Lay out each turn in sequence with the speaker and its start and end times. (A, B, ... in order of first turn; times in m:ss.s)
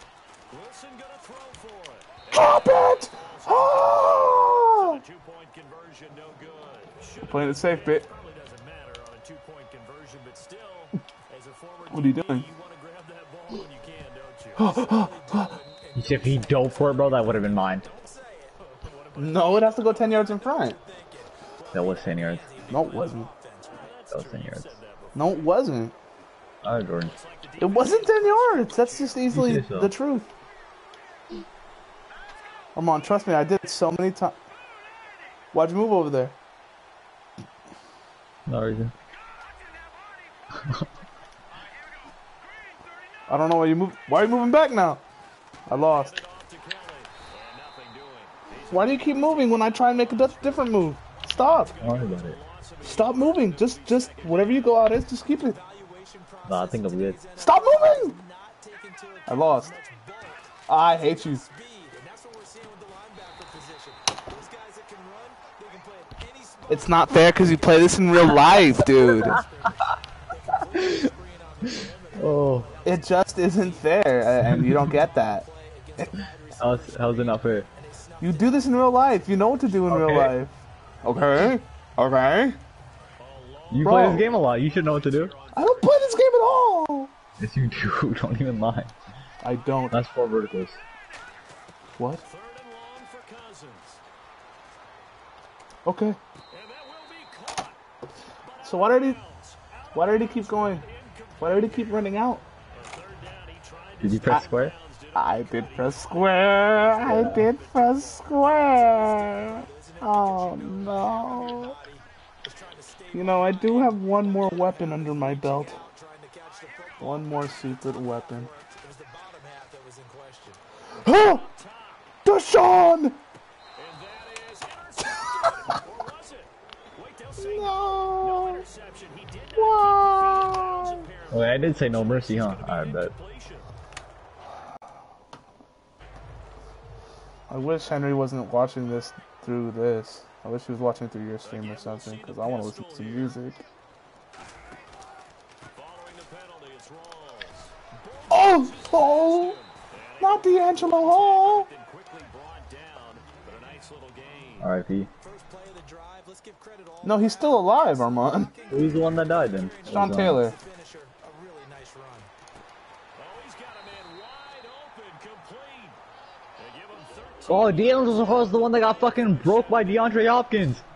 0:00.5-0:14.7 A
0:02.3-0:05.0 B
0:07.2-0:08.1 B
0:11.9-0:12.5 B
0:14.6-0:15.6 B
0:14.6-0:24.0 C
0:15.9-0:17.8 D
0:18.8-0:19.5 A
0:19.2-0:20.8 B
0:21.7-0:22.5 D
0:22.7-0:23.3 B
0:23.6-0:25.4 A
0:24.1-0:24.8 D
0:25.1-0:25.9 B
0:26.6-0:27.1 D
0:27.1-0:29.5 A
0:27.6-0:30.3 B
0:29.3-0:29.9 D
0:32.8-0:34.4 B
0:35.5-0:36.3 B
0:38.5-0:38.9 D
0:40.6-0:40.9 D
0:43.3-0:45.0 B
0:45.7-0:46.2 B
0:45.7-0:54.9 A
0:48.7-0:51.8 B
0:51.8-0:52.4 D
0:52.8-0:55.6 B
0:55.3-1:19.6 C
0:56.4-0:57.2 D
0:57.4-0:58.1 B
0:59.3-0:59.7 B
1:00.7-1:01.4 B
1:06.7-1:09.4 B
1:09.0-1:09.4 D
1:10.7-1:11.1 D
1:11.6-1:12.7 D
1:12.8-1:15.4 B
1:16.6-1:17.7 D
1:18.2-1:22.6 B
1:19.9-1:20.4 D
1:23.2-1:26.3 A
1:23.7-1:25.4 D
1:23.8-1:24.2 B
1:25.5-1:27.1 B
1:27.4-1:28.9 D
1:29.4-1:30.0 B
1:29.9-1:30.8 D
1:32.0-1:32.2 B
1:32.2-1:34.0 A
1:35.8-1:36.2 B
1:36.5-1:37.8 A
1:38.4-1:41.8 A
1:38.6-1:39.2 B
1:39.9-1:40.8 B
1:41.4-1:42.4 B
1:42.7-1:48.6 A
1:44.0-1:44.7 D
1:45.1-1:51.8 B
1:47.0-1:47.5 D
1:48.5-2:00.6 C
1:53.1-1:55.8 B
1:57.0-1:58.5 B
2:01.0-2:01.4 B
2:01.3-2:02.0 A
2:02.2-2:03.2 B
2:03.8-2:13.7 A
2:05.2-2:05.8 B
2:07.4-2:08.6 B
2:09.5-2:11.1 B
2:11.3-2:13.1 D
2:17.5-2:23.6 B
2:21.4-2:23.4 A
2:25.7-2:34.7 A
2:28.3-2:29.6 B
2:30.2-2:31.7 B
2:34.6-2:35.1 D
2:35.2-2:42.3 C
2:37.0-2:38.5 B
2:38.7-2:40.4 D
2:39.9-2:40.6 B
2:43.2-2:46.0 A
2:46.6-2:48.1 A
2:47.5-2:50.8 D